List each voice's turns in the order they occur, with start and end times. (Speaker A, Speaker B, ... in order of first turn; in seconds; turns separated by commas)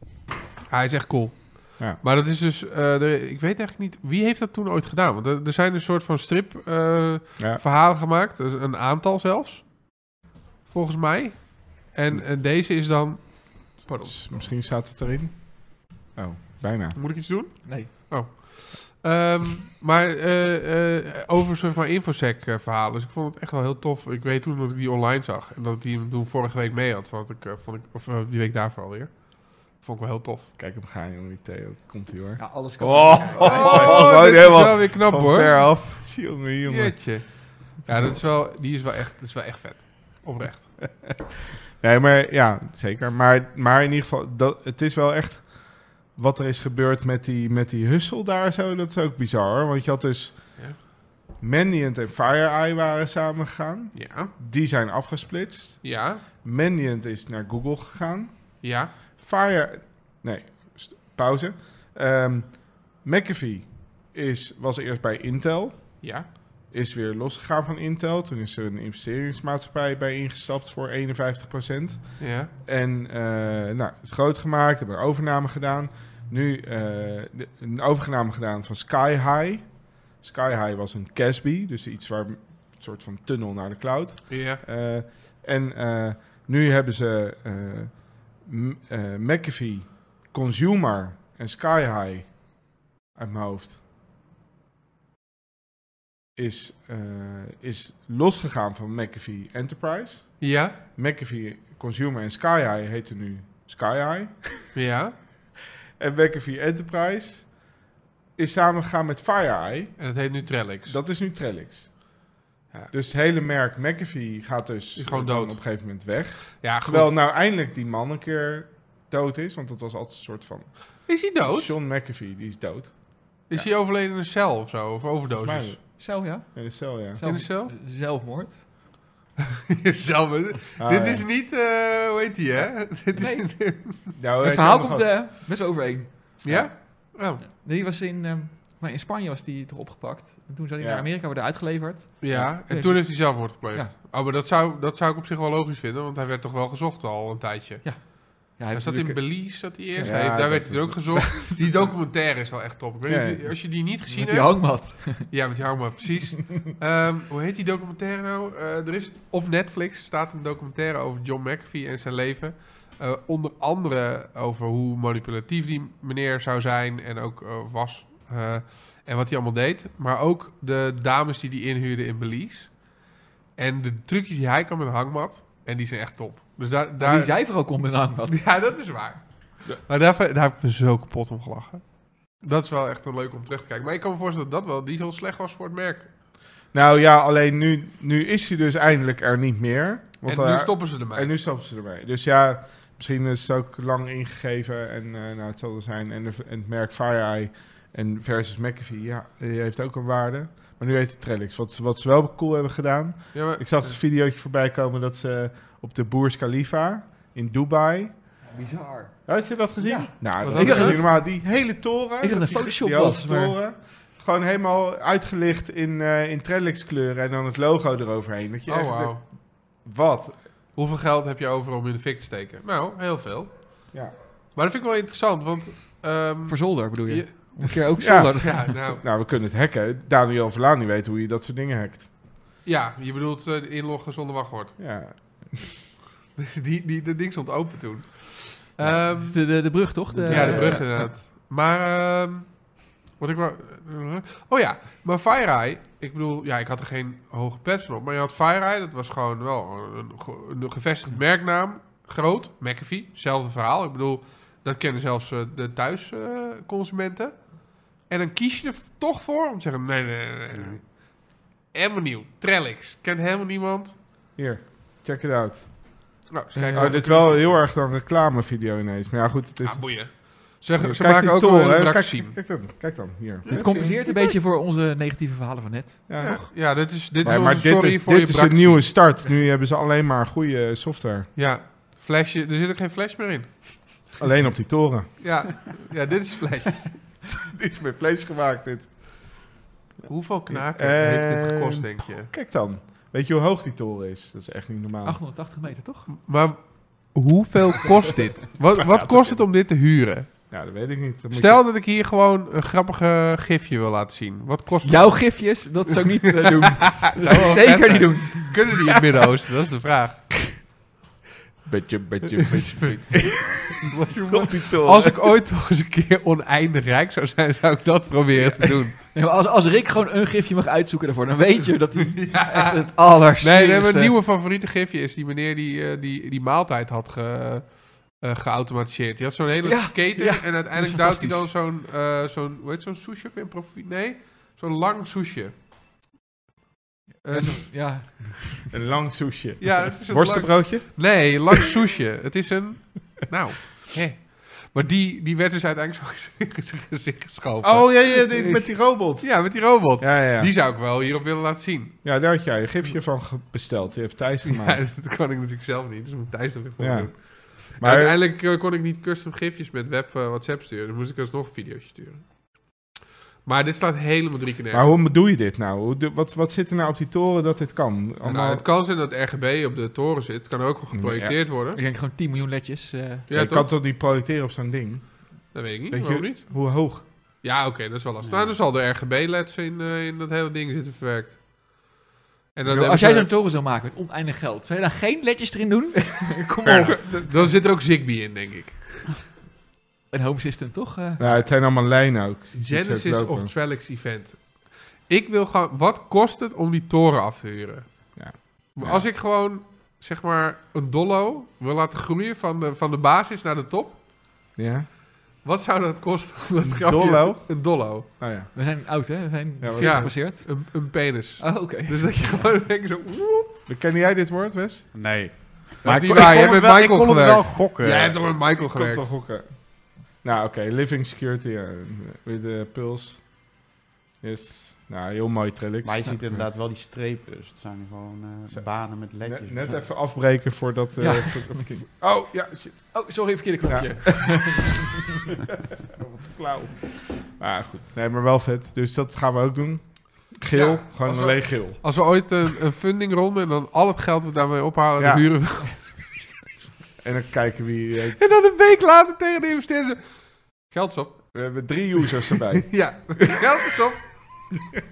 Speaker A: 0.7-13.8, Speaker B: 13.8-14.1, Speaker C: 14.0-17.0, Speaker A: 16.9-30.5, Speaker B: 17.6-17.9, Speaker C: 30.6-37.2, Speaker B: 32.4-34.2, Speaker A: 33.4-35.9, Speaker A: 36.6-40.9, Speaker C: 40.4-93.8, Speaker A: 53.9-54.3, Speaker A: 55.8-56.2, Speaker A: 58.6-58.9, Speaker A: 66.0-66.3, Speaker A: 72.2-72.5, Speaker A: 84.3-84.6, Speaker C: 96.3-104.6, Speaker A: 100.4-100.7, Speaker A: 104.7-105.1, Speaker C: 106.0-123.7, Speaker A: 110.0-111.0, Speaker A: 115.0-117.2, Speaker A: 121.0-121.7, Speaker A: 123.5-125.8, Speaker C: 125.3-127.2, Speaker B: 126.0-128.6, Speaker A: 127.2-127.7, Speaker A: 129.7-134.1, Speaker C: 130.8-131.3, Speaker B: 133.1-143.9, Speaker C: 134.2-135.2, Speaker A: 136.4-137.4, Speaker C: 136.4-137.1, Speaker C: 140.8-141.1, Speaker A: 142.2-186.1, Speaker B: 147.8-150.3, Speaker C: 150.0-152.0, Speaker C: 153.1-153.6, Speaker B: 154.0-155.3, Speaker B: 177.0-178.6, Speaker C: 186.7-208.5, Speaker A: 190.2-191.4, Speaker A: 203.3-204.0, Speaker B: 208.5-213.6, Speaker C: 209.2-220.5, Speaker A: 210.4-211.1, Speaker A: 218.7-219.2, Speaker A: 220.7-229.0, Speaker B: 226.4-228.9, Speaker C: 228.0-232.1, Speaker A: 232.6-235.4, Speaker C: 234.8-235.7, Speaker A: 236.4-264.0, Speaker C: 238.8-241.1, Speaker B: 239.0-241.1, Speaker D: 260.5-260.8, Speaker C: 264.4-266.1, Speaker A: 266.3-267.5, Speaker B: 266.5-267.5, Speaker C: 266.7-274.0, Speaker A: 269.6-272.6, Speaker A: 273.4-274.4, Speaker B: 273.5-276.5, Speaker C: 276.1-281.3, Speaker A: 276.2-279.1, Speaker A: 281.3-283.9, Speaker C: 284.2-285.6, Speaker A: 285.2-287.1, Speaker C: 287.3-295.2, Speaker A: 290.1-292.3, Speaker B: 295.0-296.1, Speaker A: 296.1-300.5, Speaker C: 298.9-299.5, Speaker C: 300.5-301.6, Speaker A: 301.3-305.7, Speaker B: 304.8-308.7, Speaker A: 306.5-310.6, Speaker C: 307.2-307.8, Speaker C: 311.6-315.3, Speaker A: 312.4-319.0, Speaker C: 318.3-318.7, Speaker B: 318.9-324.1, Speaker A: 322.2-335.5, Speaker B: 329.6-331.5, Speaker A: 337.2-338.0, Speaker B: 337.3-338.7, Speaker C: 338.7-341.5, Speaker A: 339.6-351.9, Speaker C: 347.6-350.5, Speaker C: 352.0-354.8, Speaker A: 354.4-362.9, Speaker C: 356.8-358.2, Speaker A: 363.4-364.9, Speaker C: 364.7-368.6, Speaker A: 368.2-371.8, Speaker C: 370.9-371.4, Speaker B: 371.7-373.3, Speaker A: 373.3-373.7, Speaker C: 373.3-377.1, Speaker A: 375.5-381.9, Speaker D: 378.2-378.6, Speaker A: 382.5-383.3, Speaker B: 382.7-387.2, Speaker C: 386.6-387.5, Speaker A: 386.9-389.1, Speaker B: 390.1-391.4, Speaker C: 391.2-393.5, Speaker A: 392.6-404.0, Speaker C: 398.1-399.1, Speaker C: 404.6-404.9, Speaker A: 405.4-408.1, Speaker C: 406.6-408.5, Speaker B: 408.5-412.4, Speaker C: 409.6-410.1, Speaker A: 409.8-413.6, Speaker C: 413.7-416.5, Speaker D: 414.9-418.3, Speaker A: 415.8-419.2, Speaker C: 418.4-423.6, Speaker C: 424.2-426.4, Speaker D: 425.8-429.9, Speaker C: 428.5-434.6, Speaker B: 431.0-432.3, Speaker B: 432.9-434.9, Speaker C: 435.9-442.2, Speaker A: 440.5-446.4, Speaker C: 445.0-445.6, Speaker C: 447.0-448.2, Speaker A: 448.2-451.9, Speaker C: 451.3-453.2, Speaker A: 452.7-454.5